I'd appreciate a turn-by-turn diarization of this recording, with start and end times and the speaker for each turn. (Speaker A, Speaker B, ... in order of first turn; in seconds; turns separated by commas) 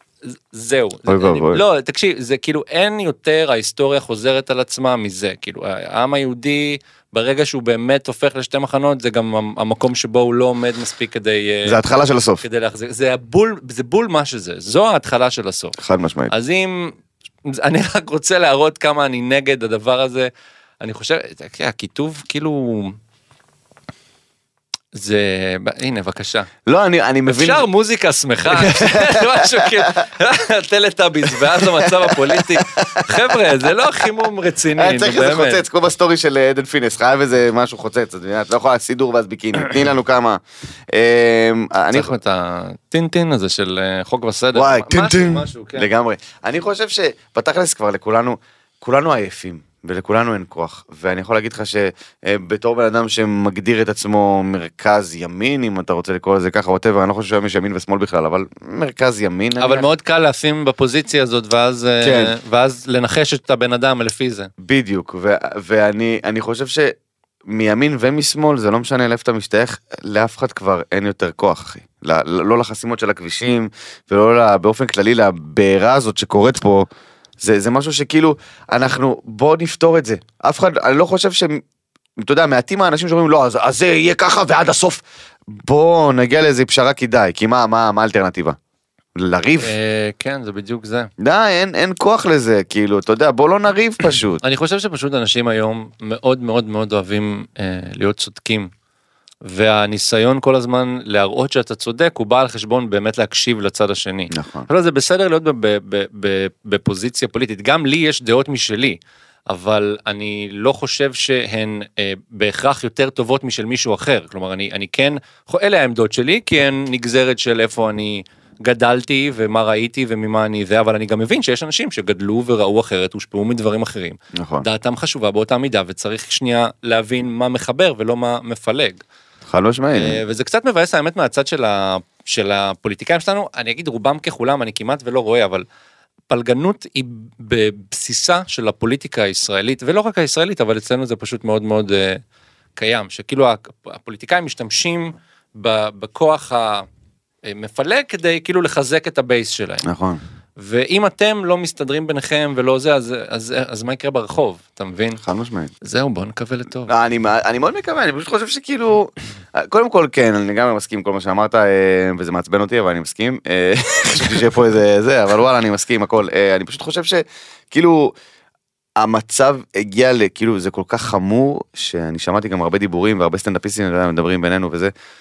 Speaker A: 0.5-11.8, Speaker B: 1.1-1.6, Speaker B: 11.7-12.4, Speaker A: 12.4-15.8, Speaker B: 15.8-16.3, Speaker A: 16.3-20.3, Speaker A: 20.8-23.0, Speaker A: 24.9-26.5, Speaker B: 26.7-27.7, Speaker A: 27.3-35.6, Speaker B: 28.5-30.1, Speaker B: 31.3-33.9, Speaker B: 34.8-42.1, Speaker A: 41.9-45.9, Speaker B: 44.5-59.9, Speaker A: 59.6-64.5, Speaker B: 62.0-62.3, Speaker B: 64.6-66.9, Speaker B: 67.5-76.9, Speaker B: 77.4-81.6, Speaker B: 82.2-88.6, Speaker B: 89.2-89.7, Speaker A: 89.6-91.1, Speaker B: 91.2-94.4, Speaker A: 94.4-98.7, Speaker A: 99.4-129.0, Speaker B: 104.3-104.7, Speaker B: 124.3-124.7, Speaker B: 129.5-130.2, Speaker A: 129.9-135.7, Speaker A: 136.3-142.2, Speaker A: 142.8-146.9, Speaker A: 147.4-149.9, Speaker B: 149.8-150.2, Speaker A: 150.6-155.2, Speaker B: 155.2-155.7, Speaker A: 155.8-156.9, Speaker B: 156.9-168.1, Speaker B: 169.0-174.9